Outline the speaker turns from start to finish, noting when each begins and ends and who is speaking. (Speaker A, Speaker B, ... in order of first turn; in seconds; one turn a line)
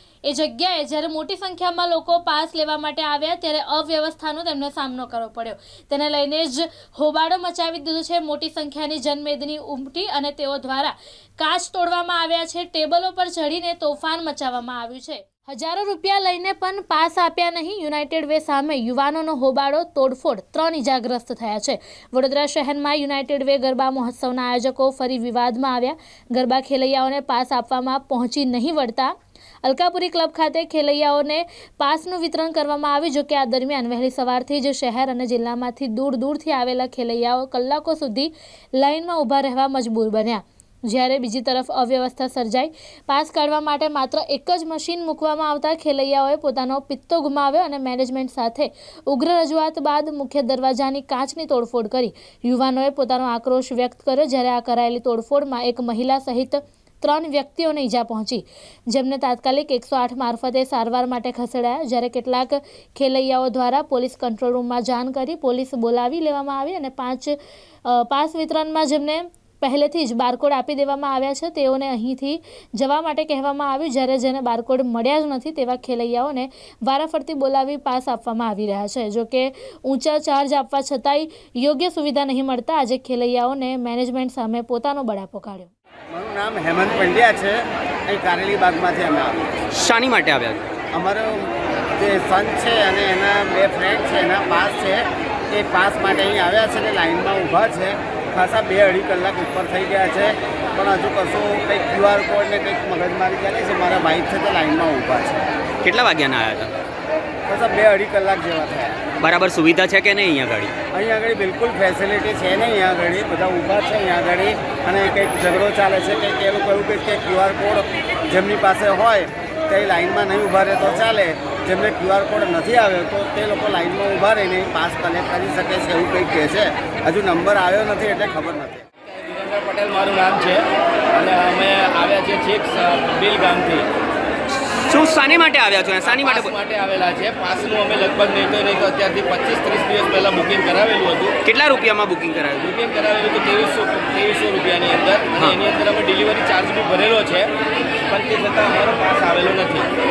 Speaker A: 0.2-85.7
Speaker B: 86.1-89.5
Speaker C: 89.7-90.7
Speaker B: 90.9-105.5
Speaker C: 105.8-106.7
Speaker B: 107.5-109.0
Speaker C: 109.2-110.7
Speaker B: 110.9-128.8
Speaker D: 129.1-133.9
Speaker C: 134.8-136.5
Speaker D: 136.0-141.4
Speaker C: 141.4-142.7
Speaker D: 142.6-147.5
Speaker D: 148.1-149.9